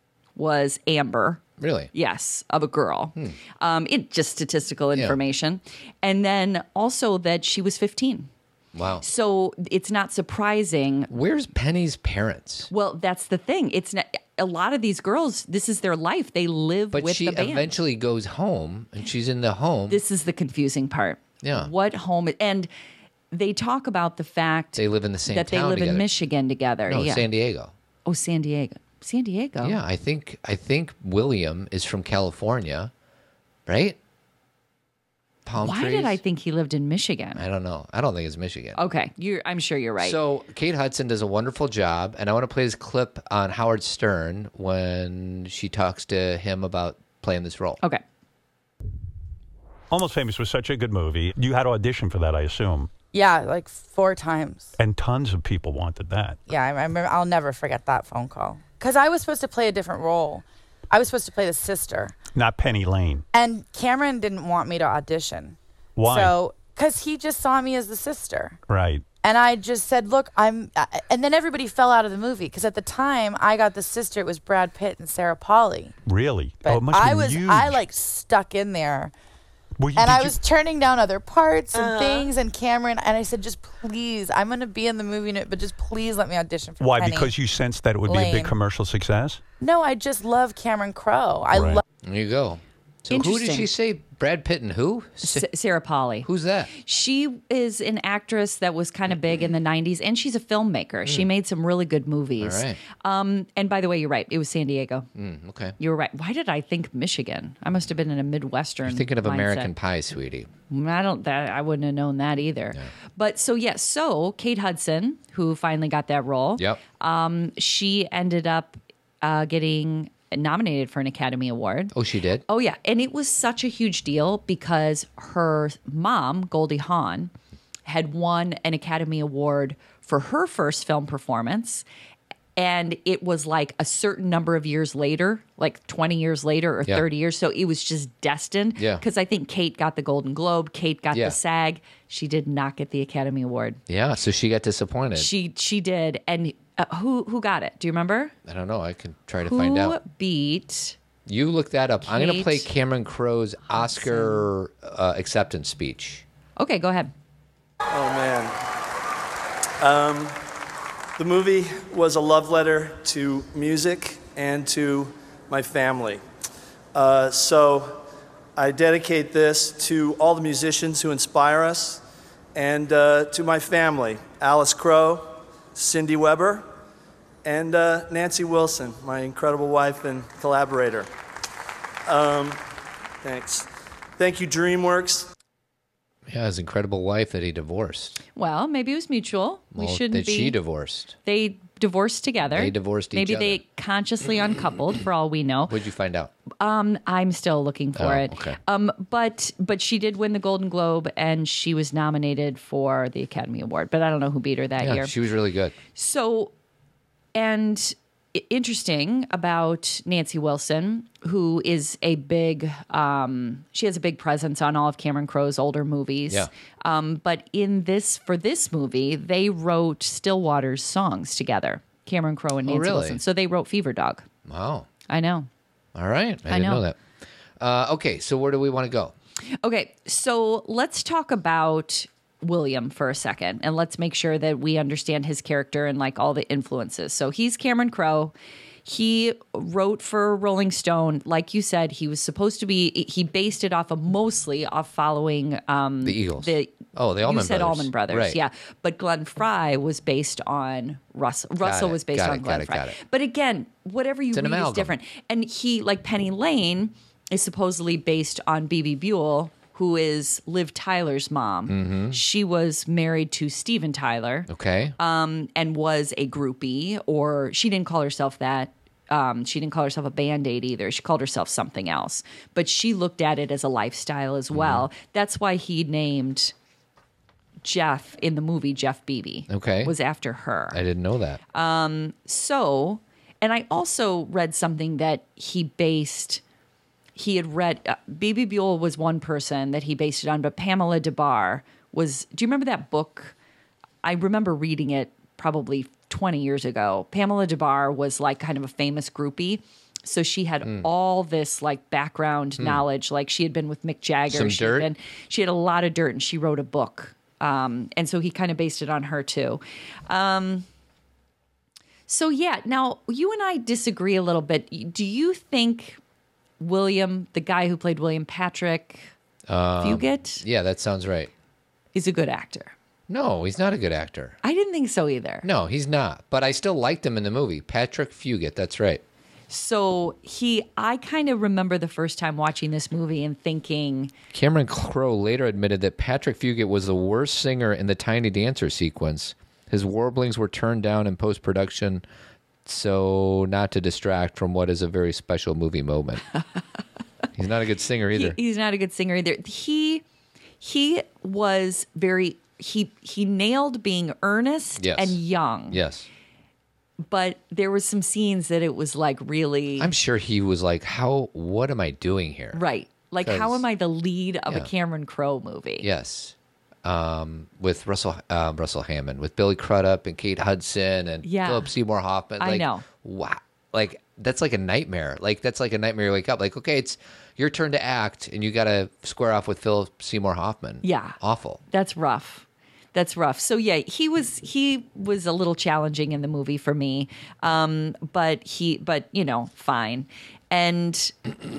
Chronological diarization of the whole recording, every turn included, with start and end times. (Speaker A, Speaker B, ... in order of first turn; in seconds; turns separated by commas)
Speaker A: 0.3-1.4, Speaker B: 1.6-1.9, Speaker A: 1.9-8.3, Speaker B: 8.7-9.0, Speaker A: 9.0-11.1, Speaker B: 11.1-12.7, Speaker A: 12.7-17.7, Speaker B: 16.9-20.0, Speaker A: 19.9-22.7, Speaker B: 21.4-21.7, Speaker A: 23.3-27.3, Speaker B: 24.8-26.1, Speaker B: 26.9-27.7, Speaker A: 28.1-29.8, Speaker B: 29.6-32.9, Speaker B: 33.7-34.0, Speaker B: 35.5-36.2, Speaker A: 35.6-37.4, Speaker B: 37.3-38.8, Speaker A: 38.7-40.2, Speaker B: 40.0-47.8, Speaker C: 49.9-52.9, Speaker D: 53.1-54.7, Speaker C: 54.8-56.4, Speaker D: 56.5-62.1, Speaker C: 62.3-63.2, Speaker D: 63.3-68.6, Speaker C: 66.0-66.3, Speaker C: 68.7-69.0, Speaker D: 69.2-75.9, Speaker C: 76.0-77.8, Speaker D: 76.6-79.1, Speaker C: 79.8-80.4, Speaker D: 80.0-87.3, Speaker C: 86.8-89.4, Speaker D: 88.0-88.5, Speaker D: 89.6-91.8, Speaker C: 91.5-91.8, Speaker B: 92.0-95.5, Speaker A: 93.1-93.7, Speaker A: 95.2-105.1, Speaker B: 96.2-96.7, Speaker B: 102.4-102.8, Speaker B: 105.2-105.7, Speaker A: 105.8-109.7, Speaker B: 108.8-110.5, Speaker A: 110.7-121.9, Speaker B: 121.9-122.4, Speaker A: 122.5-127.3, Speaker A: 127.8-131.8, Speaker A: 132.6-143.8, Speaker B: 138.8-139.0, Speaker B: 141.1-141.4, Speaker B: 143.9-145.3, Speaker A: 145.1-148.3, Speaker B: 148.4-150.0, Speaker A: 149.4-150.9, Speaker B: 151.2-156.2, Speaker A: 152.0-152.7, Speaker A: 153.7-154.4, Speaker A: 156.6-157.1, Speaker E: 157.9-158.5, Speaker E: 159.8-160.4, Speaker E: 161.2-166.2, Speaker E: 166.9-168.0, Speaker E: 168.6-172.0, Speaker E: 172.5-176.7, Speaker E: 177.4-181.1, Speaker E: 182.1-182.6, Speaker E: 183.2-185.3, Speaker B: 186.3-188.2, Speaker A: 188.3-190.6, Speaker B: 189.7-191.1, Speaker A: 191.2-195.7, Speaker B: 192.5-193.6, Speaker B: 195.7-196.3, Speaker A: 196.6-205.1, Speaker B: 197.9-198.6, Speaker B: 204.8-205.7, Speaker A: 205.9-206.5, Speaker A: 207.3-224.2, Speaker B: 222.7-223.2, Speaker B: 224.4-224.9, Speaker A: 225.1-225.5, Speaker B: 225.9-227.0, Speaker A: 226.5-226.8, Speaker B: 227.6-229.1, Speaker A: 229.6-238.3, Speaker A: 238.8-276.5, Speaker B: 246.0-248.4, Speaker B: 251.6-253.0, Speaker B: 254.3-254.9, Speaker B: 261.7-262.2, Speaker B: 264.5-264.9, Speaker B: 274.5-274.9, Speaker A: 277.6-280.8, Speaker B: 279.5-279.9, Speaker B: 280.7-281.4, Speaker A: 281.5-286.4, Speaker A: 287.1-293.3, Speaker A: 294.0-310.6, Speaker B: 304.3-304.9, Speaker A: 312.1-316.0, Speaker A: 316.6-319.1, Speaker B: 319.5-321.3, Speaker A: 319.8-320.4, Speaker A: 321.9-322.7, Speaker B: 323.1-324.4, Speaker A: 324.4-325.4, Speaker B: 325.4-329.0, Speaker A: 329.5-334.1, Speaker B: 334.3-342.0, Speaker B: 342.6-346.2, Speaker B: 347.3-348.4, Speaker A: 348.1-350.0, Speaker A: 350.6-355.8, Speaker B: 354.8-355.2, Speaker B: 355.7-356.1, Speaker A: 357.1-359.9, Speaker B: 359.8-362.6, Speaker A: 362.5-365.9, Speaker B: 363.2-363.6, Speaker B: 365.8-381.6, Speaker A: 371.2-371.7, Speaker A: 372.4-372.8, Speaker A: 380.8-381.2, Speaker A: 381.7-391.1